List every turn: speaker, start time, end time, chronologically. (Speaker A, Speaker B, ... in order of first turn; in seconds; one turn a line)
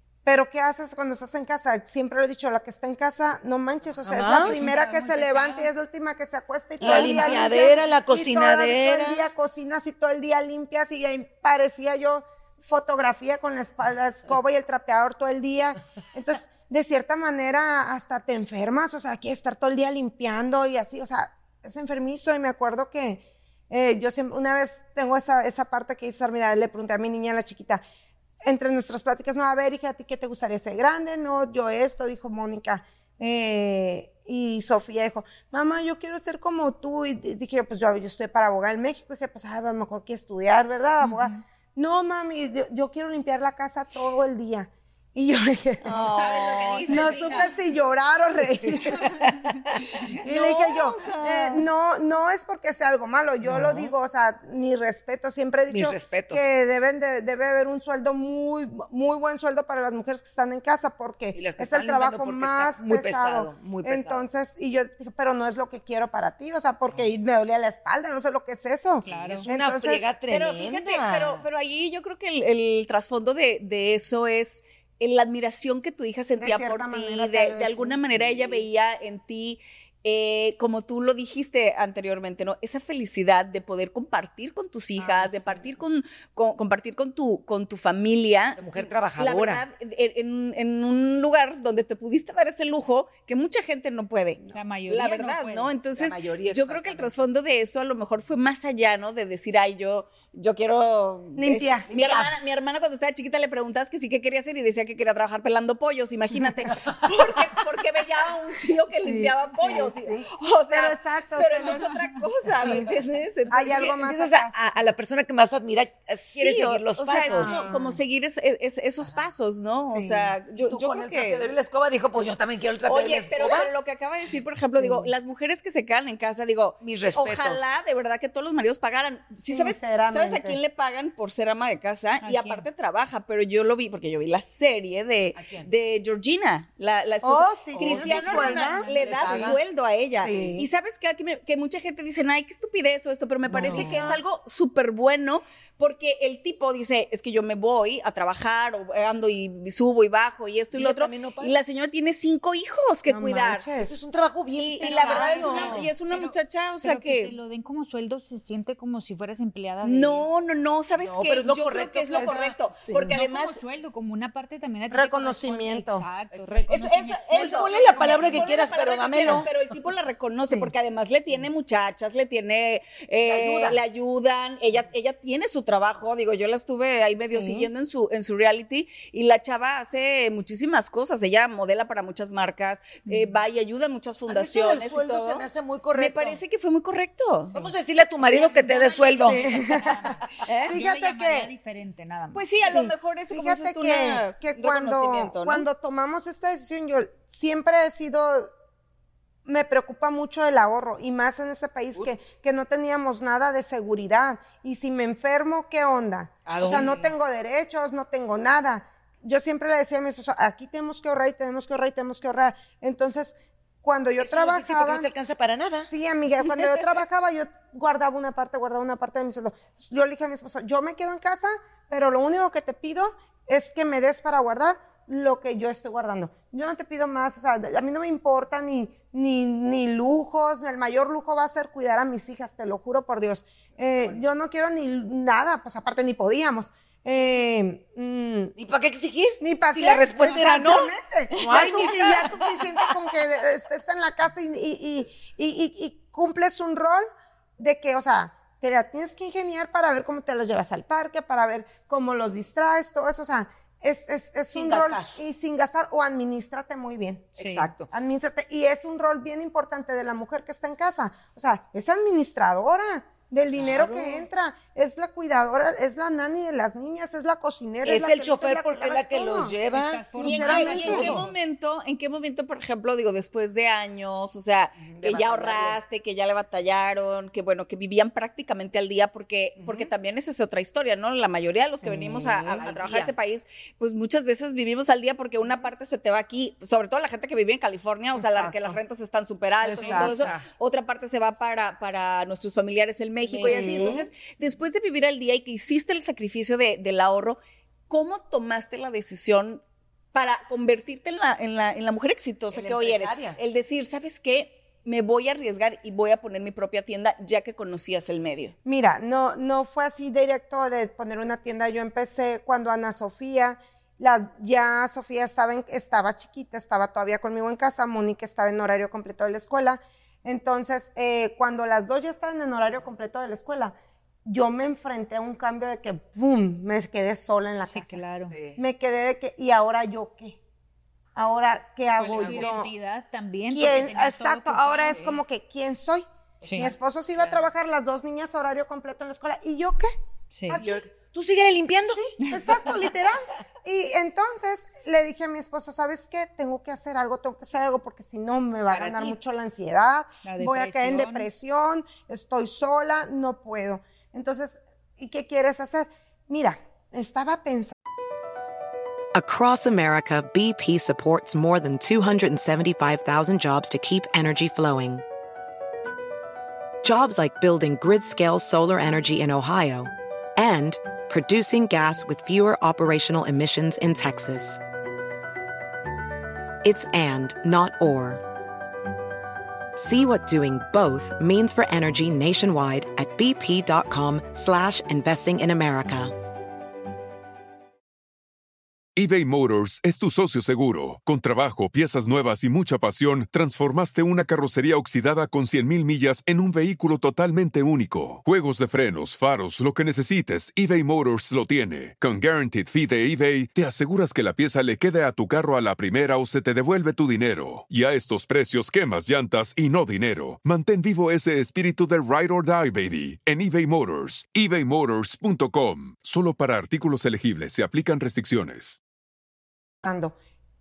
Speaker A: 0.2-27.8
Speaker B: 4.0-4.7
Speaker C: 4.2-5.7
Speaker B: 6.8-9.2
Speaker A: 28.4-45.9
Speaker C: 41.0-41.4
Speaker D: 45.9-47.4
Speaker C: 46.0-47.5
Speaker A: 46.9-49.2
Speaker A: 50.2-70.0
Speaker D: 50.2-51.6
Speaker B: 53.5-53.8
Speaker B: 55.7-56.4
Speaker B: 61.3-64.2
Speaker C: 69.0-69.4
Speaker B: 69.1-71.4
Speaker D: 70.3-88.6
Speaker A: 76.4-78.5
Speaker A: 85.0-85.7
Speaker B: 88.6-89.6
Speaker D: 89.2-113.9
Speaker C: 94.5-95.8
Speaker B: 96.0-97.2
Speaker A: 101.4-101.8
Speaker B: 101.9-102.4
Speaker B: 106.7-107.1
Speaker A: 109.0-111.8
Speaker A: 112.5-112.8
Speaker A: 113.5-114.5
Speaker B: 113.7-117.6
Speaker D: 116.4-121.5
Speaker A: 117.3-118.0
Speaker A: 119.9-120.3
Speaker B: 120.6-123.7
Speaker D: 122.9-153.6
Speaker A: 124.8-125.1
Speaker B: 126.8-127.6
Speaker A: 129.5-130.6
Speaker C: 132.2-132.7
Speaker B: 135.3-135.7
Speaker A: 137.2-139.5
Speaker B: 137.7-139.6
Speaker C: 138.1-139.3
Speaker A: 140.1-140.7
Speaker A: 143.5-144.2
Speaker B: 143.5-144.2
Speaker B: 150.7-151.6
Speaker A: 153.1-153.9
Speaker B: 153.8-155.9
Speaker D: 154.6-157.4
Speaker C: 154.8-160.2
Speaker D: 159.8-163.6
Speaker B: 161.0-162.5
Speaker A: 162.1-163.1
Speaker C: 163.1-168.7
Speaker A: 164.9-166.0
Speaker B: 166.3-166.8
Speaker D: 166.7-187.5
Speaker B: 167.3-169.5
Speaker B: 173.2-173.8
Speaker A: 177.2-177.7
Speaker C: 183.1-183.4
Speaker B: 184.3-186.4
Speaker B: 187.5-189.4
Speaker C: 188.3-192.6
Speaker A: 189.2-190.1
Speaker D: 190.5-190.8
Speaker A: 190.7-191.5
Speaker D: 192.3-195.7
Speaker A: 192.7-198.5
Speaker A: 199.4-215.1
Speaker B: 206.4-207.1
Speaker B: 214.2-215.9
Speaker A: 215.8-238.5
Speaker B: 233.8-234.2
Speaker B: 238.6-242.9
Speaker A: 239.4-247.0
Speaker A: 247.6-257.4
Speaker B: 254.5-255.2
Speaker B: 257.4-257.9
Speaker C: 257.4-257.7
Speaker A: 257.9-269.6
Speaker B: 263.5-264.2
Speaker B: 267.8-271.2
Speaker C: 269.7-271.2
Speaker A: 270.1-271.1
Speaker D: 270.2-297.4
Speaker B: 274.8-275.8
Speaker B: 279.6-279.9
Speaker A: 281.8-282.6
Speaker B: 282.6-283.1
Speaker A: 288.2-288.6
Speaker A: 289.6-290.1
Speaker B: 289.8-290.4
Speaker B: 293.3-293.8
Speaker A: 293.4-294.1
Speaker D: 297.9-299.6
Speaker D: 300.1-308.5
Speaker B: 302.5-303.4
Speaker A: 308.6-330.4
Speaker C: 327.7-328.4
Speaker B: 328.3-328.6
Speaker A: 331.1-332.7
Speaker C: 332.0-335.0
Speaker B: 332.2-332.5
Speaker A: 333.5-339.9
Speaker B: 336.4-337.4
Speaker C: 336.4-336.7
Speaker C: 340.3-340.6
Speaker A: 340.5-340.8
Speaker B: 340.5-342.1
Speaker C: 342.2-342.6
Speaker A: 342.2-357.7
Speaker B: 348.7-349.1
Speaker C: 350.2-351.3
Speaker E: 359.1-365.0
Speaker E: 366.8-374.6
Speaker E: 376.6-378.2
Speaker E: 379.8-386.1
Speaker F: 388.9-418.8
Speaker A: 419.8-420.1